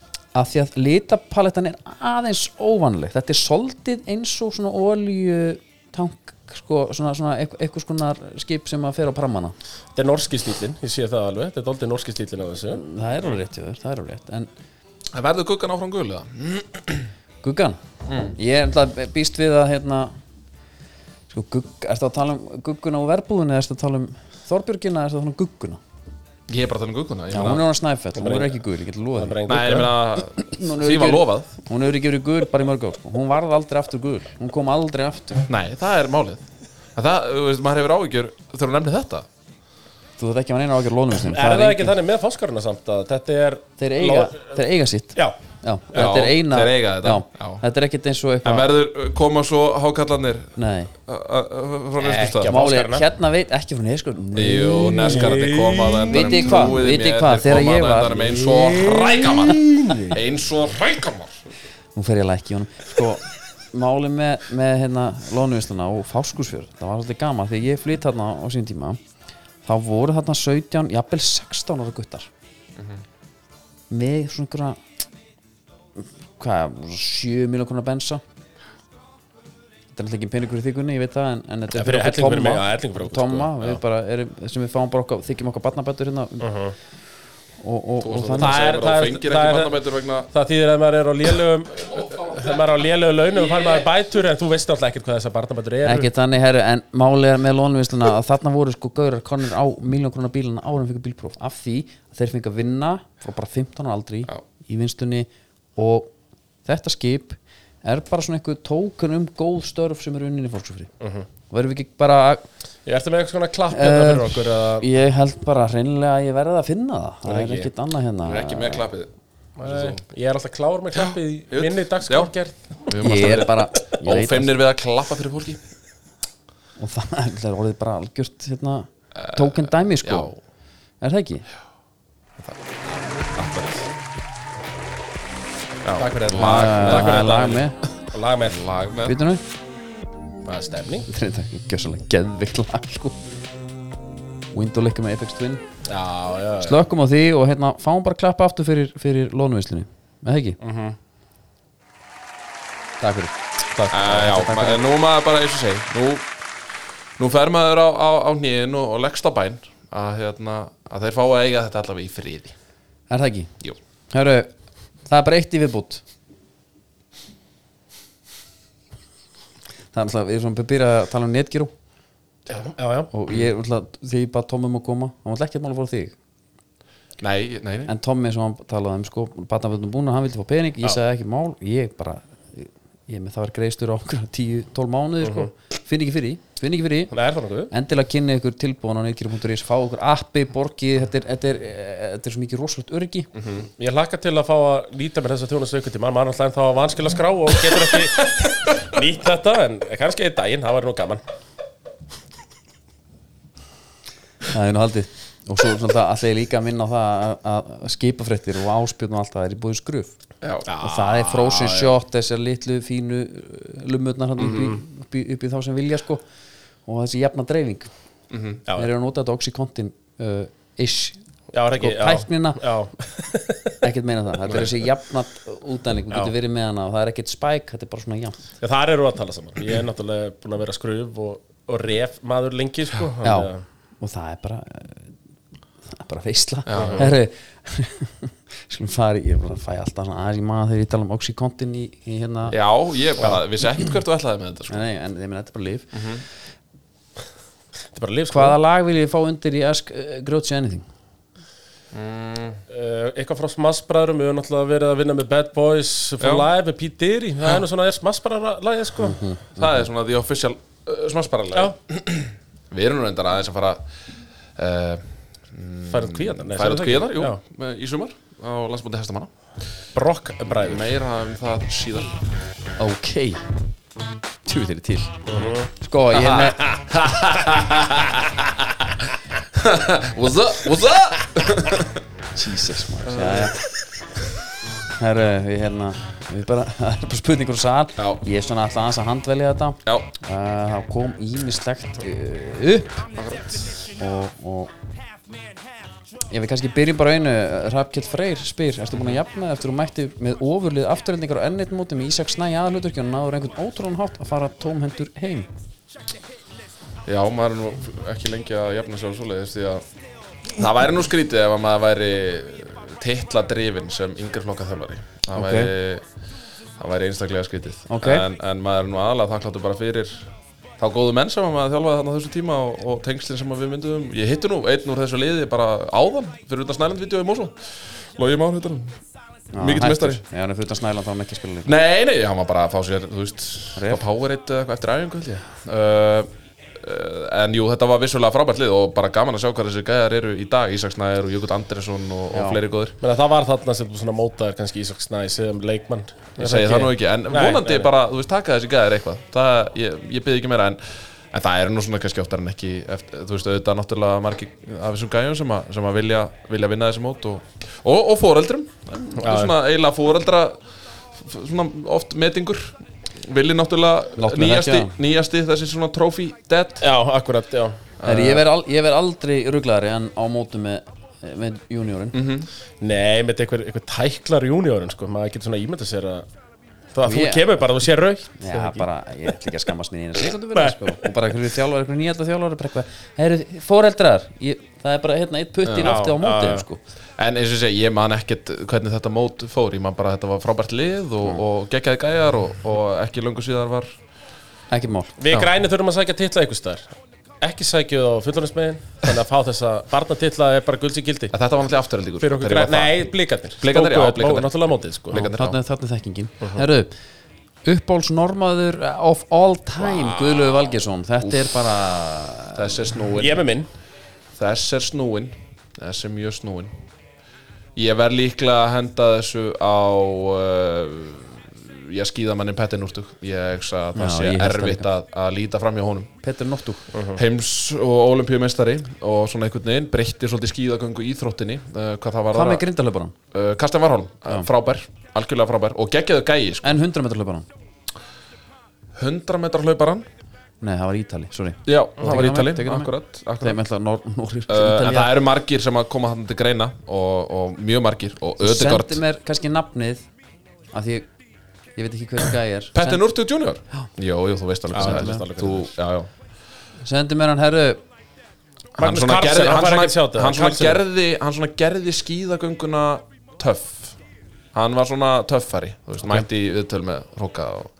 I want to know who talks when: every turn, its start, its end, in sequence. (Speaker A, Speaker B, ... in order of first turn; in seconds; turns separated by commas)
Speaker A: 0.3-9.5, Speaker B: 9.9-12.8, Speaker A: 12.7-14.5, Speaker C: 15.1-17.1, Speaker A: 17.4-20.1, Speaker C: 18.1-18.3, Speaker A: 21.3-25.8, Speaker C: 26.5-27.6, Speaker A: 27.3-29.4, Speaker B: 28.1-28.6, Speaker B: 29.2-29.9, Speaker C: 29.5-31.5, Speaker A: 30.3-35.5, Speaker C: 35.5-39.3, Speaker A: 40.2-41.9, Speaker B: 41.2-44.5, Speaker A: 43.8-48.7, Speaker C: 45.9-47.6, Speaker C: 48.4-52.5, Speaker A: 50.5-50.9, Speaker B: 52.0-53.0, Speaker A: 52.4-55.5, Speaker C: 54.3-61.4, Speaker B: 55.0-56.5, Speaker A: 56.1-59.5, Speaker B: 58.7-60.1, Speaker A: 61.9-69.0, Speaker A: 69.6-72.3, Speaker A: 73.9-74.8, Speaker A: 76.0-78.2, Speaker A: 79.9-86.5, Speaker B: 81.7-83.8, Speaker B: 86.4-86.7, Speaker A: 87.6-88.6, Speaker C: 88.0-90.3, Speaker B: 88.4-96.1, Speaker A: 95.8-106.1, Speaker A: 106.7-110.9, Speaker A: 111.5-112.5, Speaker B: 112.8-114.8, Speaker A: 113.7-118.8, Speaker B: 117.2-117.7, Speaker C: 118.2-119.1, Speaker B: 119.6-122.5, Speaker C: 119.6-120.0, Speaker C: 120.9-122.3, Speaker C: 122.8-125.6, Speaker A: 123.0-124.5, Speaker A: 126.8-130.3, Speaker C: 129.2-130.3, Speaker A: 131.0-131.4, Speaker C: 132.4-133.9, Speaker C: 135.8-137.4, Speaker B: 135.9-138.7, Speaker A: 136.3-137.8, Speaker C: 138.5-139.1, Speaker A: 139.0-139.4, Speaker B: 140.4-141.1, Speaker A: 141.1-143.2, Speaker A: 144.5-145.6, Speaker B: 145.8-146.8, Speaker A: 146.6-150.6, Speaker B: 150.6-150.9, Speaker A: 153.0-154.8, Speaker C: 153.9-156.2, Speaker C: 157.2-162.5, Speaker A: 163.1-163.5, Speaker A: 164.1-164.5, Speaker A: 165.1-166.0, Speaker A: 169.9-171.7, Speaker B: 172.6-173.1, Speaker A: 173.1-176.1, Speaker C: 177.2-177.9, Speaker A: 177.9-187.1, Speaker B: 185.2-185.5, Speaker B: 187.1-187.7, Speaker A: 187.7-193.3, Speaker B: 193.4-201.2, Speaker A: 204.5-210.1, Speaker C: 210.4-210.7, Speaker B: 210.7-211.9, Speaker A: 210.8-216.2, Speaker B: 214.4-214.8, Speaker A: 216.8-217.9, Speaker C: 218.3-218.6, Speaker A: 218.7-221.2, Speaker B: 221.5-223.7, Speaker A: 221.8-222.6, Speaker A: 223.8-228.4, Speaker C: 224.4-224.7, Speaker B: 228.6-233.6, Speaker A: 233.2-235.1, Speaker A: 235.9-242.6, Speaker C: 236.7-237.1, Speaker B: 236.7-237.1, Speaker C: 242.5-244.8, Speaker A: 244.7-246.0, Speaker C: 245.9-246.2, Speaker B: 247.9-248.6, Speaker A: 248.3-250.9, Speaker C: 251.9-252.6, Speaker B: 252.7-259.2, Speaker C: 256.2-256.5, Speaker A: 259.0-259.9, Speaker C: 259.6-263.8, Speaker C: 264.6-269.3, Speaker B: 265.9-267.4, Speaker B: 269.9-270.9, Speaker C: 270.6-272.1, Speaker A: 272.8-273.4, Speaker A: 274.4-275.2, Speaker B: 275.3-275.7, Speaker A: 275.8-276.6, Speaker C: 276.1-279.0, Speaker C: 279.5-282.0, Speaker A: 282.3-283.6, Speaker C: 283.1-283.6, Speaker A: 285.0-293.1, Speaker C: 293.1-293.7, Speaker A: 294.0-294.7, Speaker A: 296.3-305.5, Speaker C: 307.1-309.8, Speaker C: 310.5-316.1, Speaker A: 315.3-315.7, Speaker C: 316.8-320.3, Speaker A: 317.9-318.3, Speaker C: 320.8-329.0, Speaker A: 329.5-331.7, Speaker C: 329.6-330.2, Speaker C: 331.6-342.9, Speaker A: 333.8-334.0, Speaker A: 342.3-342.6, Speaker B: 343.0-347.9, Speaker C: 346.4-360.6, Speaker B: 359.2-359.5, Speaker C: 361.1-366.9, Speaker A: 364.2-364.9, Speaker B: 366.8-367.8, Speaker C: 368.0-368.4, Speaker A: 368.0-372.2, Speaker C: 372.1-372.5, Speaker B: 372.8-376.2, Speaker B: 376.9-378.9, Speaker A: 377.0-377.6, Speaker A: 378.4-386.8, Speaker B: 380.5-381.0, Speaker C: 385.6-386.0, Speaker B: 385.8-386.6, Speaker C: 387.2-393.9, Speaker A: 394.7-395.1, Speaker B: 395.2-396.9, Speaker B: 397.4-401.3, Speaker C: 401.3-402.9, Speaker B: 402.2-405.3, Speaker C: 403.6-404.5, Speaker C: 405.1-405.6, Speaker A: 405.1-406.9, Speaker A: 407.6-412.8, Speaker C: 412.5-413.5, Speaker B: 413.2-413.7, Speaker C: 414.4-416.7, Speaker C: 417.8-426.1, Speaker A: 423.9-424.9, Speaker A: 426.2-426.8, Speaker B: 426.9-427.2, Speaker C: 427.1-432.6, Speaker A: 432.3-433.1, Speaker C: 433.3-436.8, Speaker A: 436.6-437.5, Speaker C: 438.9-440.0, Speaker A: 440.6-445.1, Speaker C: 441.6-443.6, Speaker C: 444.5-449.0, Speaker A: 448.4-450.1, Speaker A: 450.7-451.1, Speaker A: 451.8-453.1, Speaker C: 452.7-456.1, Speaker B: 454.7-455.7, Speaker A: 454.7-455.2, Speaker A: 456.8-457.8, Speaker C: 458.8-463.9, Speaker B: 458.8-460.8, Speaker C: 464.5-467.7